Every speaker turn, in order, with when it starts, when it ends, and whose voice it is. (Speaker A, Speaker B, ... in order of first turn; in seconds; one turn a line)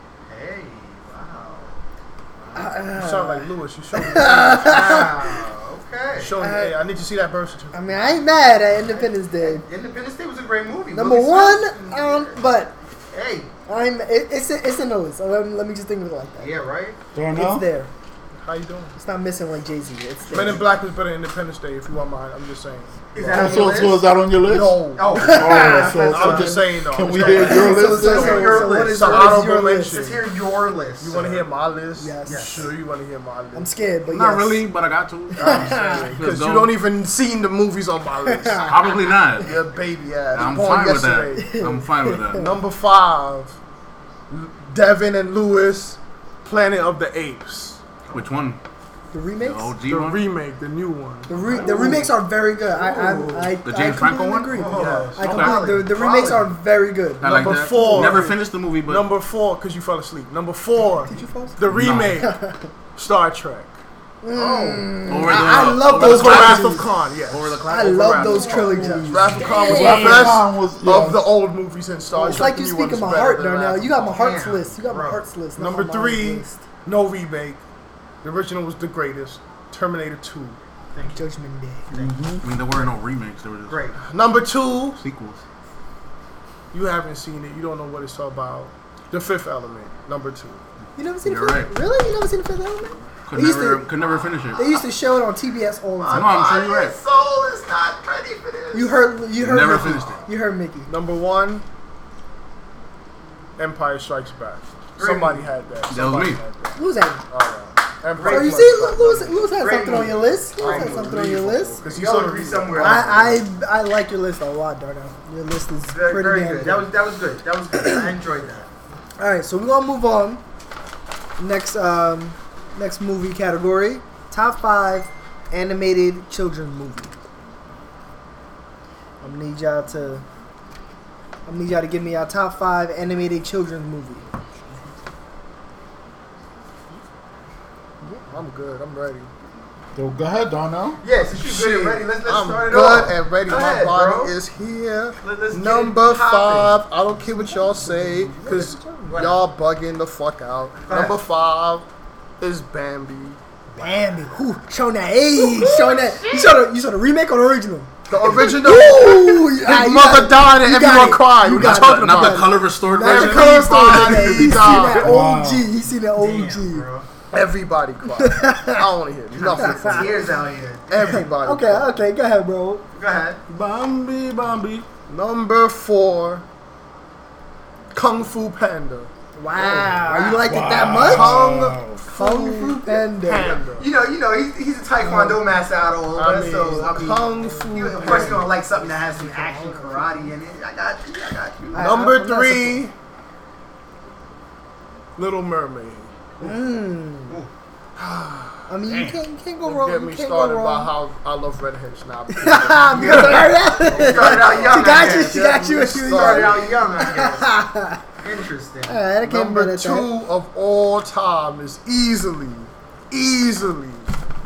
Speaker A: 0.2-1.8
Speaker A: 2.4-2.8
Speaker B: 2.5-5.4
Speaker C: 2.9-5.2
Speaker A: 4.6-6.4
Speaker C: 6.1-8.2
Speaker B: 6.4-6.8
Speaker B: 7.7-9.6
Speaker A: 8.8-12.4
Speaker B: 10.9-12.7
Speaker A: 13.1-13.5
Speaker B: 13.7-16.5
Speaker A: 16.4-17.0
Speaker D: 17.1-17.7
Speaker B: 17.3-17.9
Speaker C: 18.3-18.9
Speaker B: 18.9-20.7
Speaker C: 20.3-23.8
Speaker A: 23.1-24.0
Speaker D: 23.3-28.6
Speaker C: 24.4-30.2
Speaker A: 24.9-26.4
Speaker B: 25.1-26.6
Speaker A: 27.0-31.5
Speaker B: 27.1-30.0
Speaker C: 31.0-33.7
Speaker B: 32.0-32.7
Speaker A: 32.2-32.8
Speaker B: 33.5-34.6
Speaker E: 34.1-36.8
Speaker B: 35.4-36.2
Speaker C: 35.4-38.7
Speaker B: 38.3-38.7
Speaker E: 38.6-39.6
Speaker C: 39.4-41.6
Speaker E: 40.3-42.5
Speaker B: 41.3-42.5
Speaker C: 42.4-43.6
Speaker C: 44.3-47.8
Speaker E: 48.1-48.6
Speaker B: 49.1-49.7
Speaker E: 49.4-50.2
Speaker C: 49.8-52.1
Speaker B: 51.3-58.3
Speaker C: 52.7-53.6
Speaker E: 53.6-55.8
Speaker A: 54.5-56.5
Speaker C: 54.7-55.2
Speaker E: 57.2-59.1
Speaker C: 57.2-62.4
Speaker B: 61.0-61.6
Speaker E: 61.7-62.2
Speaker B: 62.2-62.7
Speaker C: 62.9-63.7
Speaker B: 64.2-66.8
Speaker A: 64.3-65.0
Speaker E: 65.0-69.3
Speaker C: 65.9-67.6
Speaker B: 67.7-70.4
Speaker C: 68.3-74.1
Speaker D: 68.8-71.3
Speaker B: 72.1-76.6
Speaker A: 73.9-75.2
Speaker C: 75.5-77.6
Speaker C: 78.2-80.6
Speaker A: 80.9-81.2
Speaker B: 81.1-81.9
Speaker A: 81.9-82.3
Speaker D: 81.9-82.4
Speaker E: 82.4-83.8
Speaker A: 83.7-84.0
Speaker C: 84.0-85.0
Speaker E: 85.0-85.4
Speaker C: 86.7-90.6
Speaker B: 91.0-93.9
Speaker E: 91.2-91.7
Speaker E: 93.3-94.8
Speaker B: 94.5-96.3
Speaker A: 96.0-99.0
Speaker E: 96.1-97.0
Speaker B: 98.7-100.9
Speaker E: 99.4-100.2
Speaker C: 100.9-101.6
Speaker C: 103.6-109.5
Speaker A: 105.0-105.5
Speaker E: 105.9-106.4
Speaker B: 106.8-107.2
Speaker A: 108.1-108.9
Speaker B: 108.2-111.8
Speaker A: 109.5-111.1
Speaker C: 110.6-113.4
Speaker A: 111.8-113.3
Speaker B: 112.7-116.9
Speaker A: 115.9-118.7
Speaker B: 117.7-118.1
Speaker B: 119.2-120.4
Speaker B: 121.4-127.1
Speaker B: 129.2-130.2
Speaker B: 131.4-134.3
Speaker C: 138.3-139.3
Speaker D: 139.9-141.0
Speaker A: 141.0-144.3
Speaker C: 141.3-151.9
Speaker A: 145.2-146.8
Speaker B: 147.2-149.2
Speaker A: 149.1-149.4
Speaker A: 150.9-151.2
Speaker C: 152.4-153.4
Speaker B: 153.8-166.8
Speaker A: 155.5-155.9
Speaker C: 158.1-165.2
Speaker E: 161.5-164.1
Speaker D: 164.9-165.7
Speaker A: 166.1-167.1
Speaker C: 167.3-171.9
Speaker B: 168.1-168.8
Speaker A: 169.3-171.2
Speaker B: 169.5-170.1
Speaker B: 171.0-172.8
Speaker A: 172.9-173.4
Speaker E: 173.5-174.9
Speaker C: 175.1-176.4
Speaker C: 177.9-183.9
Speaker B: 179.3-181.4
Speaker D: 180.4-182.0
Speaker B: 182.1-183.6
Speaker A: 183.4-192.0
Speaker B: 185.0-185.4
Speaker C: 186.1-188.5
Speaker B: 186.8-190.3
Speaker B: 191.7-192.9
Speaker C: 191.8-192.9
Speaker C: 195.2-196.6
Speaker B: 196.4-197.4
Speaker C: 197.9-198.8
Speaker B: 198.7-200.9
Speaker C: 199.6-206.8
Speaker B: 202.3-208.0
Speaker A: 202.9-207.5
Speaker A: 208.2-209.1
Speaker B: 208.8-210.1
Speaker C: 209.2-214.1